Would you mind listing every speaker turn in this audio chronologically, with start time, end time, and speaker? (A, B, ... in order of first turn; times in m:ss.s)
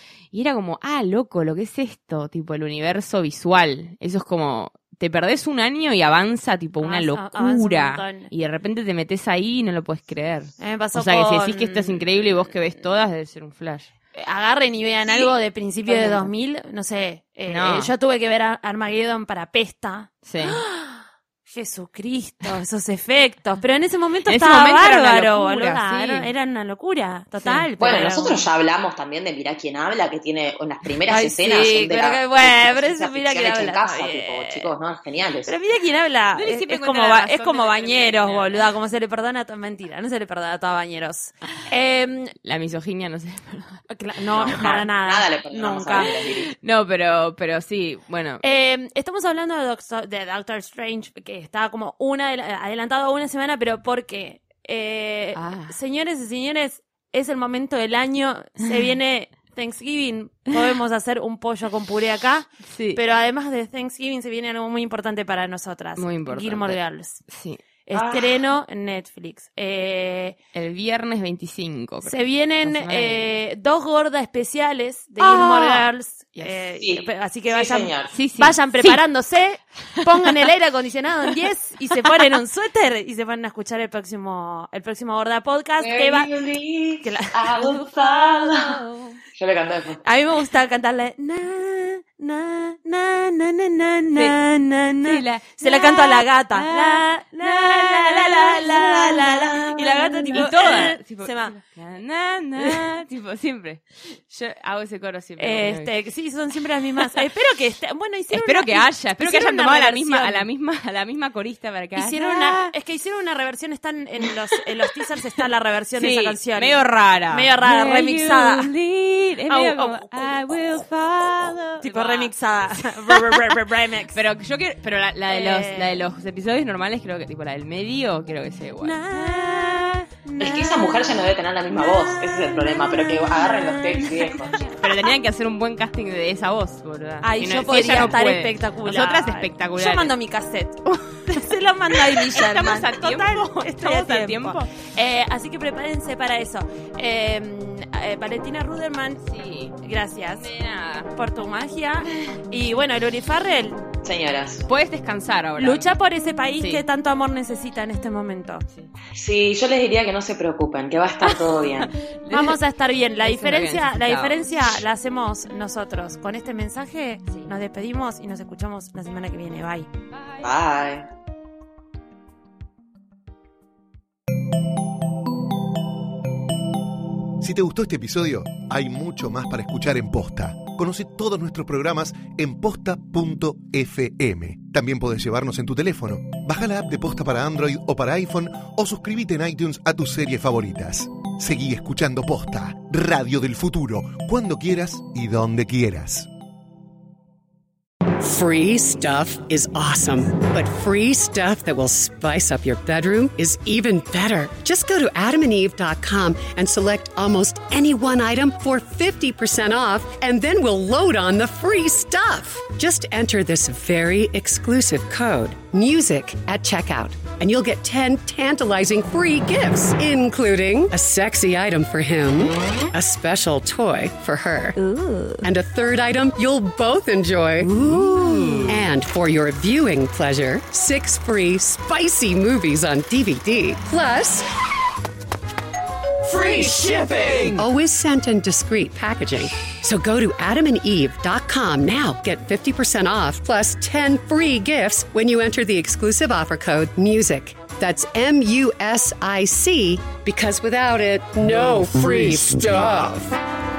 0:00.3-0:13.9 A
0:06.8-0:08.3 B
0:10.6-0:12.0 B
0:14.1-0:28.4 B
0:15.1-0:15.3 C
0:15.9-0:16.3 C
0:17.5-0:17.9 A
0:20.3-0:20.6 A
0:24.3-0:26.3 A
0:27.4-0:27.7 A
0:27.8-0:35.5 C
0:31.1-0:34.7 B
0:35.5-0:42.4 B
0:36.4-0:38.6 A
0:42.4-0:43.9 A
0:43.9-0:46.1 B
0:44.3-0:46.5 C
0:44.5-0:44.8 A
0:46.0-0:48.4 A
0:48.4-1:07.2 B
0:55.4-0:55.8 A
1:02.7-1:03.0 A
1:06.0-1:06.8 A
1:07.3-1:07.6 A
1:07.9-1:10.4 B
1:07.9-1:08.4 C
1:10.5-1:13.4 A
1:12.1-1:26.3 B
1:15.2-1:15.9 A
1:16.8-1:18.1 C
1:18.1-1:19.0 A
1:20.0-1:20.3 A
1:25.8-1:28.8 C
1:27.0-1:28.6 B
1:29.4-1:30.0 C
1:30.0-1:41.6 B
1:35.0-1:39.0 A
1:38.7-1:40.5 C
1:40.3-1:45.9 A
1:42.6-1:42.9 B
1:45.4-1:50.5 B
1:48.3-1:52.7 A
1:52.0-1:56.8 B
1:56.0-2:03.4 A
1:57.3-1:58.7 B
1:59.5-2:00.4 B
2:01.8-2:04.2 B
2:04.1-2:10.0 A
2:05.3-2:06.0 B
2:08.8-2:14.9 B
2:10.4-2:14.6 C
2:14.7-2:20.1 A
2:17.2-2:29.2 B
2:20.9-2:21.4 A
2:21.9-2:24.7 A
2:29.2-2:29.8 A
2:29.8-2:30.5 B
2:30.4-2:31.1 A
2:31.1-2:33.8 B
2:32.1-2:32.4 A
2:34.0-2:34.7 C
2:34.7-2:35.8 A
2:35.6-2:38.6 B
2:39.1-2:41.9 C
2:41.8-2:42.6 A
2:42.3-2:49.9 B
2:43.2-2:44.4 A
2:50.1-2:50.5 A
2:50.4-2:51.1 C
2:57.4-3:16.3 D
3:18.2-3:44.9 E
3:45.4-3:54.4 E
3:56.3-4:13.4 E